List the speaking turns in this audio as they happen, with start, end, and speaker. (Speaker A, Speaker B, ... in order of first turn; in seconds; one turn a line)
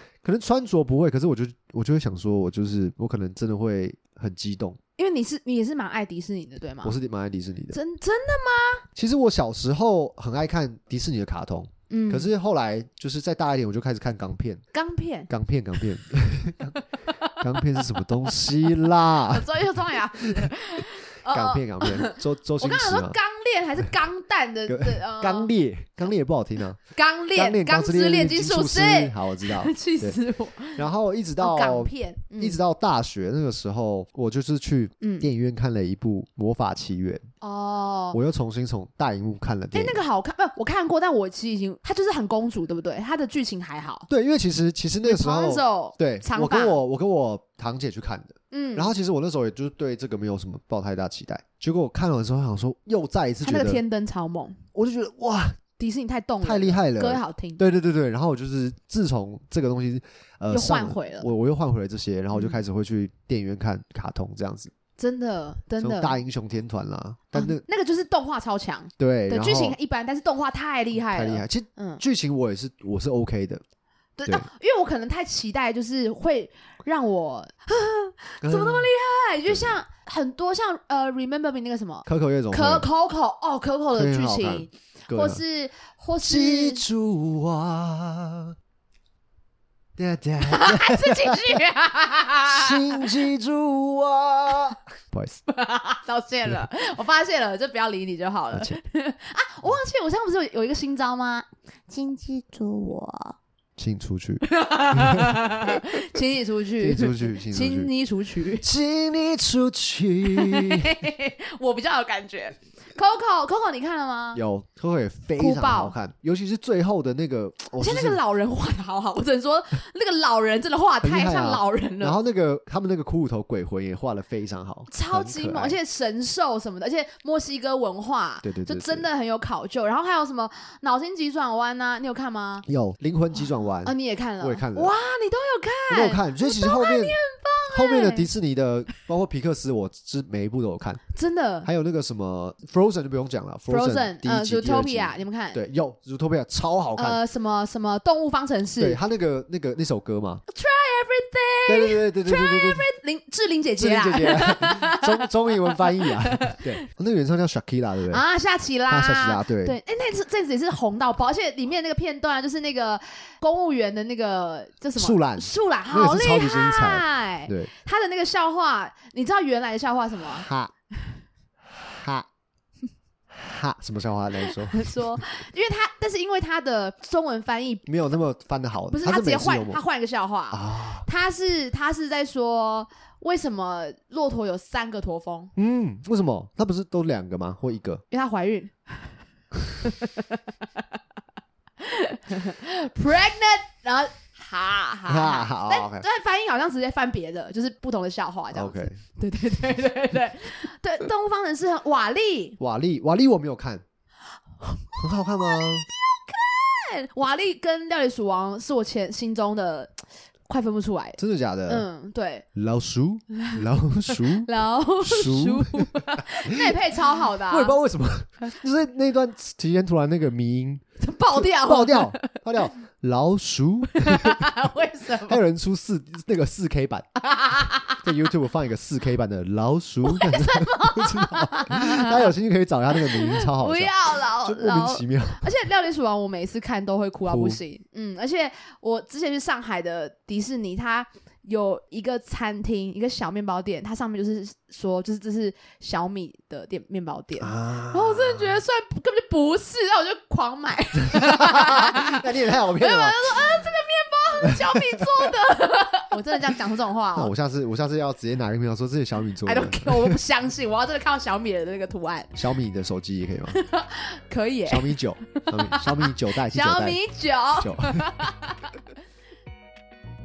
Speaker A: 0.2-4.8
Speaker B: 5.0-7.0
Speaker A: 6.8-7.8
Speaker B: 7.7-8.9
Speaker A: 9.0-14.6
Speaker B: 11.9-12.3
Speaker B: 14.7-15.3
Speaker A: 15.3-16.8
Speaker B: 17.2-18.4
Speaker A: 17.4-23.2
Speaker B: 19.1-25.5
Speaker A: 24.7-26.8
Speaker B: 26.9-30.8
Speaker A: 27.4-30.2
Speaker A: 30.7-37.2
Speaker B: 31.4-32.6
Speaker B: 35.0-35.3
Speaker B: 37.4-38.2
Speaker A: 38.1-40.0
Speaker B: 39.7-44.1
Speaker A: 44.1-53.8
Speaker B: 45.0-46.8
Speaker B: 48.5-48.9
Speaker B: 53.4-54.6
Speaker A: 54.8-55.6
Speaker B: 55.8-57.6
Speaker A: 56.4-64.7
Speaker B: 60.5-61.3
Speaker B: 62.3-62.6
Speaker B: 65.0-66.2
Speaker A: 65.8-67.6
Speaker B: 67.3-72.0
Speaker A: 69.0-69.8
Speaker A: 71.1-73.6
Speaker B: 74.2-86.8
Speaker A: 78.4-78.9
Speaker A: 79.5-79.8
Speaker A: 82.1-82.9
Speaker A: 84.0-85.4
Speaker A: 86.2-88.5
Speaker A: 90.0-91.6
Speaker B: 90.4-93.1
Speaker A: 92.5-95.4
Speaker B: 95.5-103.4
Speaker A: 98.5-98.8
Speaker A: 103.8-105.6
Speaker B: 104.5-108.7
Speaker A: 106.8-107.9
Speaker A: 108.6-111.0
Speaker B: 110.3-114.4
Speaker A: 114.3-118.2
Speaker B: 115.4-116.0
Speaker B: 117.8-122.2
Speaker A: 121.0-125.8
Speaker B: 124.9-132.7
Speaker A: 128.4-129.1
Speaker A: 132.7-134.9
Speaker B: 133.8-138.3
Speaker A: 135.9-137.2
Speaker A: 137.7-141.0
Speaker B: 141.1-141.7
Speaker A: 141.6-147.2
Speaker B: 143.7-145.6
Speaker B: 147.0-149.0
Speaker A: 148.8-150.4
Speaker B: 150.5-156.8
Speaker A: 151.7-152.9
Speaker A: 153.8-158.2
Speaker B: 158.1-170.5
Speaker A: 158.9-159.8
Speaker A: 164.9-167.7
Speaker A: 170.3-170.7
Speaker A: 171.7-172.3
Speaker A: 173.3-175.2
Speaker B: 174.4-177.8
Speaker A: 177.9-179.8
Speaker B: 178.9-185.5
Speaker A: 180.5-181.1
Speaker A: 185.6-188.0
Speaker B: 188.1-189.2
Speaker B: 189.8-190.4
Speaker B: 191.8-202.6
Speaker A: 195.1-196.1
Speaker A: 198.5-199.0
Speaker A: 202.6-203.8
Speaker B: 204.6-209.9
Speaker A: 205.0-205.9
Speaker B: 210.5-212.4
Speaker A: 211.2-211.9
Speaker A: 212.6-214.5
Speaker B: 213.3-217.8
Speaker A: 215.0-224.5
Speaker B: 221.0-222.3
Speaker B: 223.9-225.4
Speaker A: 225.2-227.1
Speaker B: 227.2-228.0
Speaker A: 228.0-235.5
Speaker B: 230.1-232.3
Speaker B: 232.9-257.3
Speaker A: 237.3-237.6
Speaker A: 247.4-248.6
Speaker A: 251.0-253.6
Speaker A: 254.5-255.3
Speaker A: 257.1-260.2
Speaker B: 259.4-262.4
Speaker A: 262.4-263.6
Speaker B: 263.5-268.7
Speaker A: 264.7-267.0
Speaker A: 267.6-268.3